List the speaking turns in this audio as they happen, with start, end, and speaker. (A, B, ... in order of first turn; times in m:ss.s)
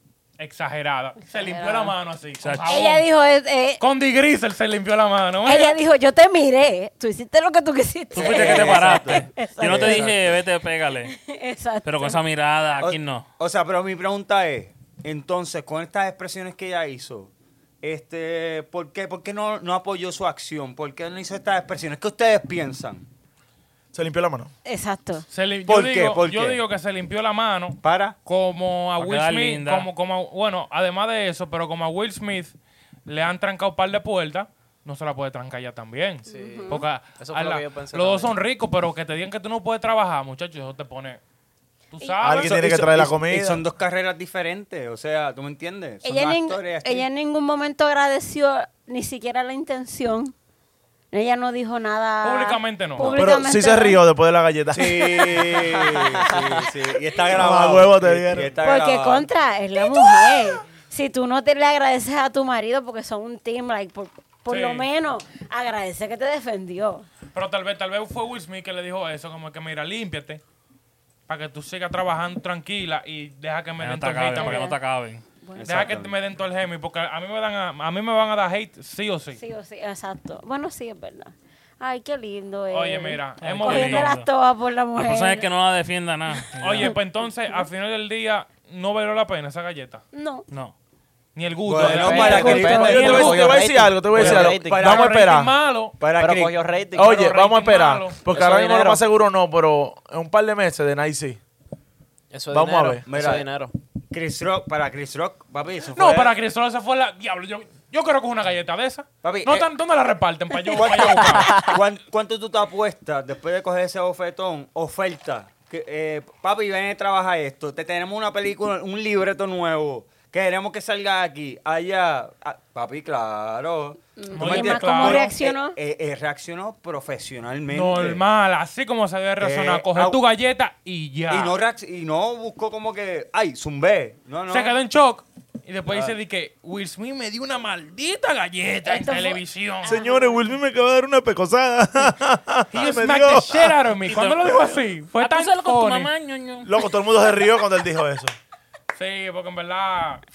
0:00.4-0:03.0 A
0:01.3-0:01.9 B
0:02.4-0:02.9 C
0:02.6-0:03.8 B
0:03.8-0:05.8 A
0:05.4-0:10.1 B
0:08.2-0:10.2 D
0:08.2-0:11.2 C
0:11.1-0:12.2 B
0:11.8-0:13.3 C
0:12.8-0:23.1 D
0:23.9-0:24.5 E
0:24.6-0:25.2 B
0:25.3-0:41.2 A
0:25.7-0:26.6 D
0:27.8-0:28.1 D
0:29.0-0:29.9 C
0:36.3-0:36.8 B
0:36.3-0:38.3 F
0:41.9-0:42.6 A
0:42.2-0:43.6 E
0:42.4-0:47.0 D
0:46.0-0:50.3 B
0:51.1-0:54.0 B
0:52.2-0:53.2 A
0:53.0-0:55.5 E
0:54.7-0:59.3 D
0:55.8-0:56.7 F
0:57.3-0:58.5 E
0:58.6-1:07.1 B
1:04.5-1:04.8 A
1:07.3-1:10.4 A
1:11.3-1:14.7 A
1:13.8-1:15.2 C
1:14.3-1:14.8 B
1:15.4-1:15.9 B
1:15.6-1:16.1 D
1:15.6-1:19.4 A
1:19.3-1:25.5 B
1:22.7-1:24.1 A
1:23.4-1:24.3 C
1:25.0-1:27.0 C
1:26.6-1:30.0 A
1:30.1-1:30.5 B
1:30.5-1:30.7 C
1:31.3-1:33.6 A
1:31.6-1:33.5 D
1:31.8-1:34.9 F
1:32.2-1:32.6 B
1:32.3-1:35.5 E
1:34.1-1:35.2 D
1:34.8-1:36.0 A
1:36.0-1:36.6 D
1:36.1-1:37.3 F
1:37.0-1:41.4 E
1:37.0-1:38.2 A
1:38.2-1:39.0 F
1:42.3-1:43.7 F
1:42.5-1:43.0 E
1:43.0-1:43.4 D
1:44.1-1:46.3 D
1:46.0-1:51.7 A
1:49.2-1:49.7 D
1:50.7-2:08.2 D
1:51.4-1:51.7 F
2:04.2-2:05.8 B
2:04.3-2:05.3 A
2:07.7-2:11.5 A
2:09.4-2:10.2 D
2:11.3-2:14.7 D
2:14.5-2:20.0 A
2:15.9-2:16.1 D
2:18.8-2:20.4 B
2:19.8-2:23.8 E
2:22.7-2:26.1 A
2:24.0-2:26.8 C
2:26.6-2:28.3 E
2:28.9-2:30.2 A